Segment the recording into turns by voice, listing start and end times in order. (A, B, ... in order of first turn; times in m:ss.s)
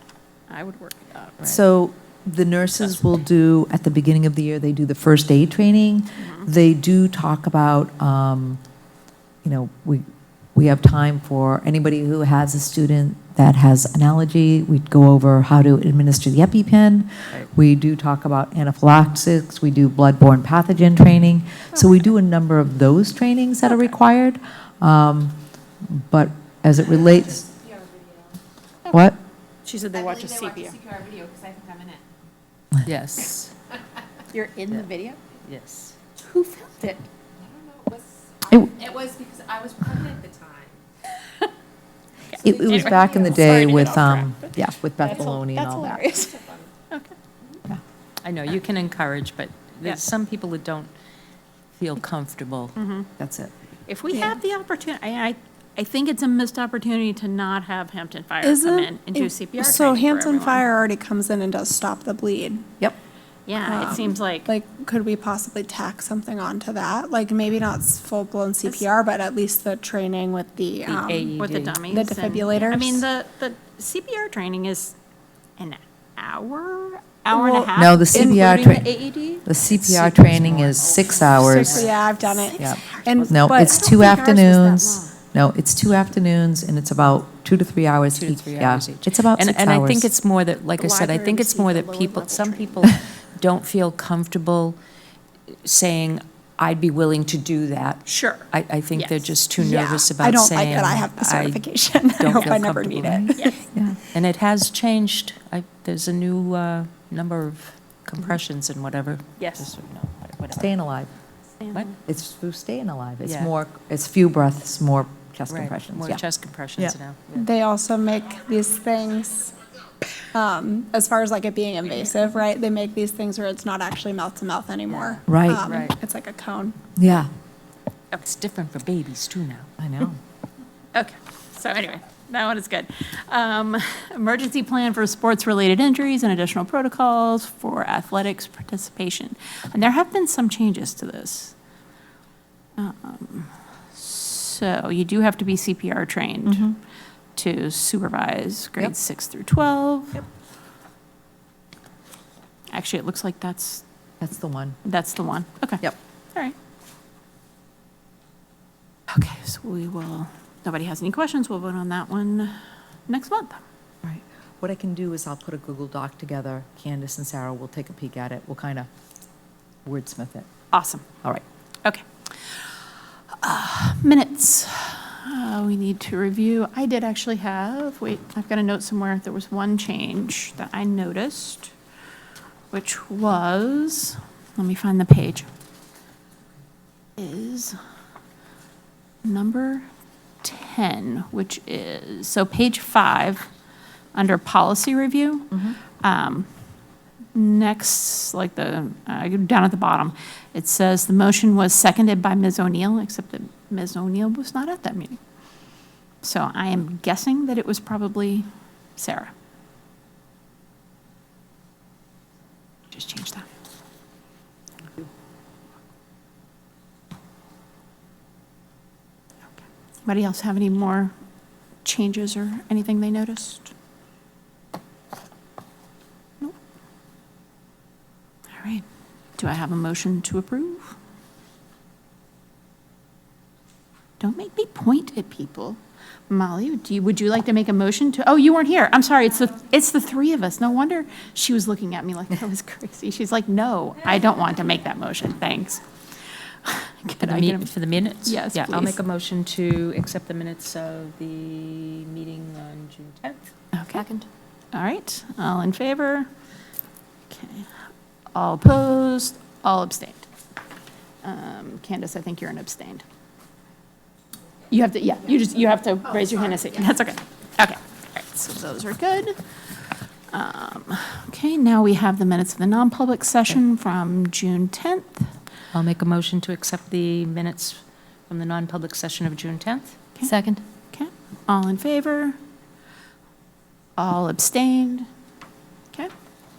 0:00.5-0:01.5 A
0:01.4-0:08.6 B
0:06.2-0:06.4 A
0:09.4-0:27.5 B
0:28.9-0:29.2 B
0:29.6-0:30.8 A
0:30.8-0:31.9 C
0:32.8-0:33.5 D
0:34.3-0:35.2 A
0:35.4-0:36.0 D
0:36.2-0:37.1 A
0:37.7-0:38.0 C
0:38.5-0:38.8 B
0:38.8-0:40.7 C
0:42.3-0:44.4 A
0:42.4-0:46.0 B
0:45.0-0:47.2 A
0:48.2-0:50.9 D
0:51.8-0:52.8 D
0:52.8-0:53.1 A
0:53.2-0:53.5 B
0:53.9-1:00.7 A
0:54.1-0:54.4 E
0:58.4-1:02.6 E
1:03.4-1:04.5 A
1:03.6-1:13.0 E
1:10.8-1:11.8 D
1:11.4-1:15.0 A
1:15.6-1:18.8 A
1:17.7-1:21.9 B
1:18.1-1:22.1 D
1:21.4-1:23.9 E
1:22.3-1:25.2 A
1:22.6-1:30.1 B
1:28.1-1:34.8 D
1:30.8-1:32.8 A
1:35.6-1:43.3 D
1:38.0-1:39.3 A
1:39.6-1:43.6 E
1:43.1-1:44.0 B
1:44.0-1:50.7 D
1:49.4-1:49.7 A
1:50.6-1:51.1 B
1:51.6-1:51.9 A
1:52.0-1:56.2 B
1:53.2-1:53.5 D
1:55.5-1:57.5 D
1:57.3-1:59.6 E
2:00.3-2:06.8 E
2:04.9-2:06.0 D
2:05.3-2:05.7 B
2:07.0-2:07.3 B
2:08.1-2:09.7 D
2:09.8-2:10.2 B
2:10.9-2:21.5 A
2:22.8-2:26.7 A
2:26.4-2:26.8 B
2:27.3-2:30.2 A
2:32.7-2:33.8 A
2:34.2-2:34.8 B
2:34.8-2:36.5 A
2:39.1-2:43.6 A
2:44.0-2:48.9 B
2:49.8-2:50.5 B
2:50.7-2:51.0 A
2:51.8-2:52.7 A
2:53.4-3:01.7 A
3:02.7-3:05.5 A
3:07.2-3:07.8 A
3:09.2-3:09.9 A
3:10.4-3:13.5 A
3:14.1-3:16.5 A
3:17.3-3:25.2 A
3:26.2-3:29.3 A
3:32.9-3:33.4 A
3:40.0-3:41.1 A
3:41.8-3:43.7 A
3:48.5-3:48.8 A
3:49.4-3:51.0 A
3:54.2-4:09.0 A
4:07.2-4:14.2 D
4:13.7-4:14.0 A
4:14.7-4:16.3 A
4:17.3-4:17.7 A
4:18.3-4:20.3 A
4:21.2-4:23.0 A
4:24.7-4:29.4 A
4:30.3-4:35.4 A
4:35.7-4:40.6 D
4:40.9-4:42.4 A
4:44.0-4:45.1 A